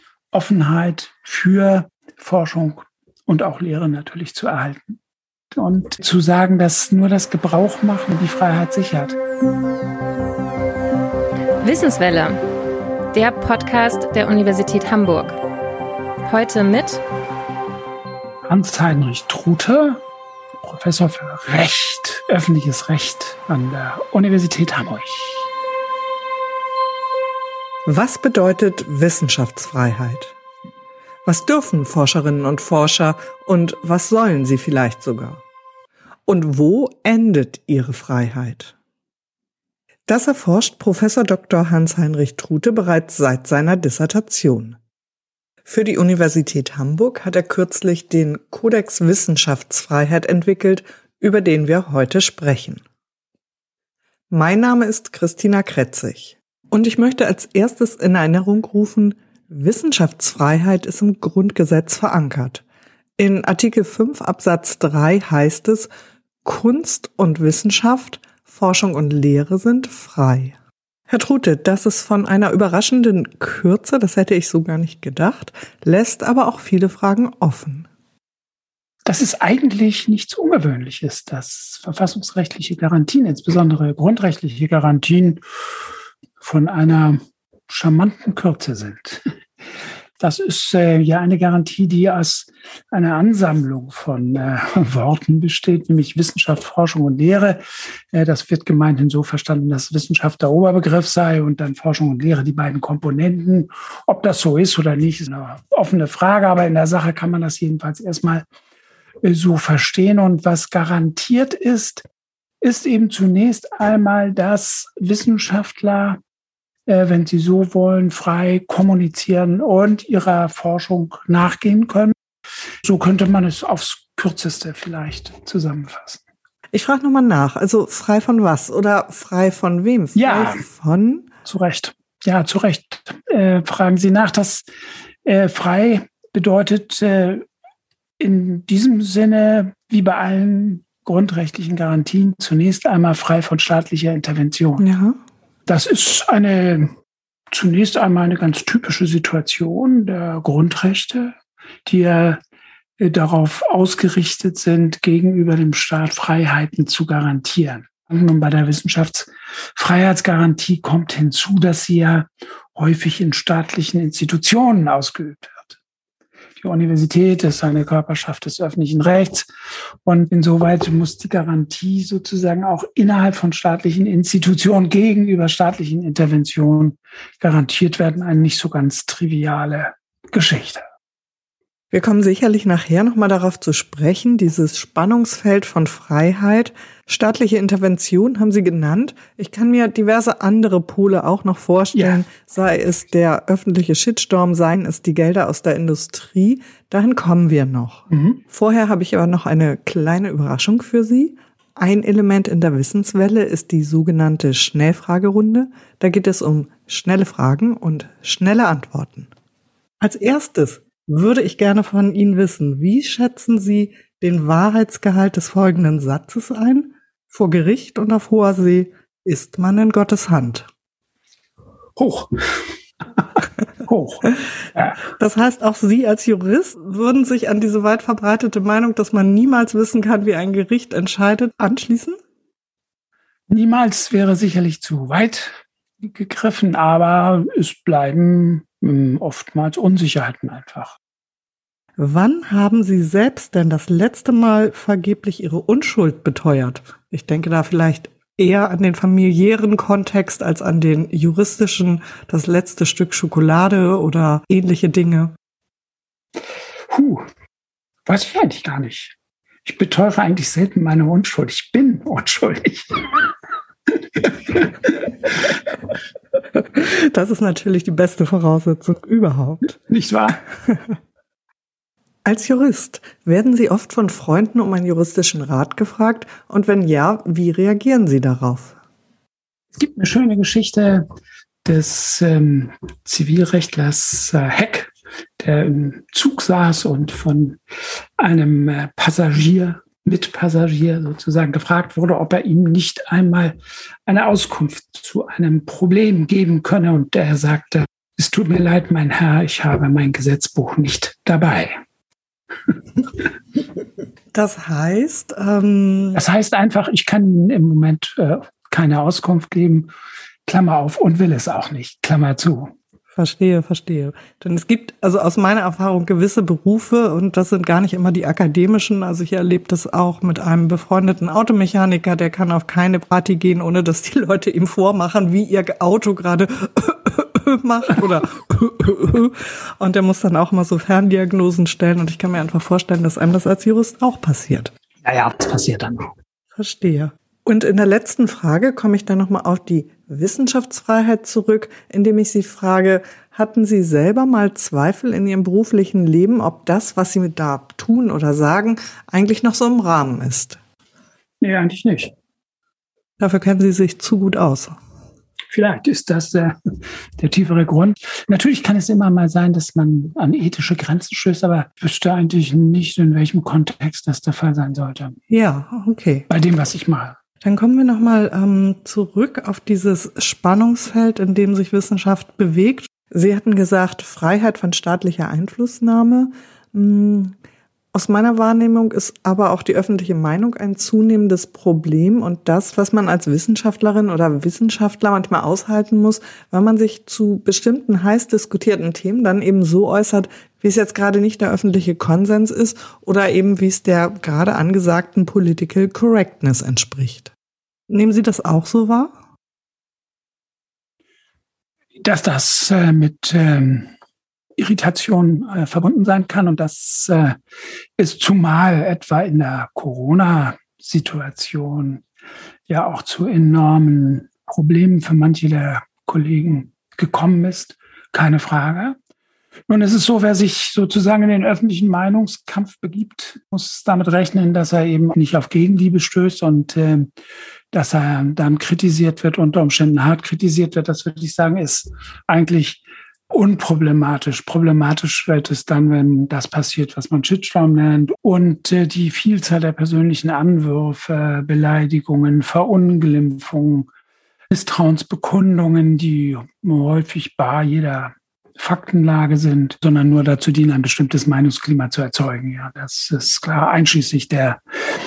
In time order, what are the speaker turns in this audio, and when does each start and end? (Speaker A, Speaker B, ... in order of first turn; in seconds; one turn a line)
Speaker A: 0.3-5.0
Speaker A: 5.5-9.2
Speaker B: 11.6-12.4
Speaker B: 13.1-15.4
Speaker B: 16.3-17.0
Speaker A: 18.5-20.0
Speaker A: 20.6-25.5
Speaker C: 27.9-30.4
Speaker C: 31.2-35.4
Speaker C: 36.3-38.7
Speaker C: 40.1-44.8
Speaker C: 45.7-52.8
Speaker C: 54.3-62.6
Speaker C: 63.2-65.9
Speaker C: 66.5-70.6
Speaker C: 71.1-77.9
Speaker A: 79.1-85.4
Speaker A: 86.4-89.2
Speaker A: 90.2-108.5
Speaker A: 109.2-112.1
Speaker A: 112.6-116.2
Speaker A: 116.9-122.2
Speaker A: 122.8-126.2
Speaker C: 126.7-131.3
Speaker A: 130.2-130.6
Speaker A: 131.4-134.7
Speaker A: 135.2-137.5
Speaker A: 138.2-144.8
Speaker C: 144.8-145.2
Speaker A: 145.7-146.9
Speaker A: 147.5-152.4
Speaker A: 153.0-165.8
Speaker A: 166.6-169.5
Speaker A: 170.1-180.8
Speaker C: 181.9-209.3
Speaker A: 191.9-192.2
Speaker A: 198.1-198.4
Speaker C: 210.0-220.7
Speaker A: 222.0-222.6
Speaker A: 223.8-224.9
Speaker C: 225.1-232.2
Speaker A: 233.5-241.0
Speaker C: 242.0-255.3
Speaker A: 256.9-257.2
Speaker A: 258.1-263.1
Speaker C: 266.5-269.8
Speaker A: 269.9-270.4
Speaker C: 270.7-270.9
Speaker C: 272.2-278.8
Speaker A: 279.8-281.1
Speaker A: 281.6-287.6
Speaker A: 288.2-301.8
Speaker C: 304.3-306.2
Speaker A: 306.1-309.9
Speaker A: 310.5-312.7
Speaker C: 313.1-334.7
Speaker A: 335.0-336.1
Speaker C: 336.6-350.6
Speaker A: 351.4-352.1
Speaker C: 353.2-354.8
Speaker A: 355.5-356.6
Speaker A: 357.2-365.2
Speaker C: 365.3-366.3
Speaker A: 366.3-367.2
Speaker C: 367.4-377.3
Speaker C: 377.9-397.3
Speaker C: 397.9-399.1
Speaker A: 402.0-403.9
Speaker A: 404.6-407.4
Speaker A: 408.0-412.0
Speaker A: 412.7-419.0
Speaker A: 419.7-427.1
Speaker A: 427.7-443.9
Speaker A: 444.5-454.6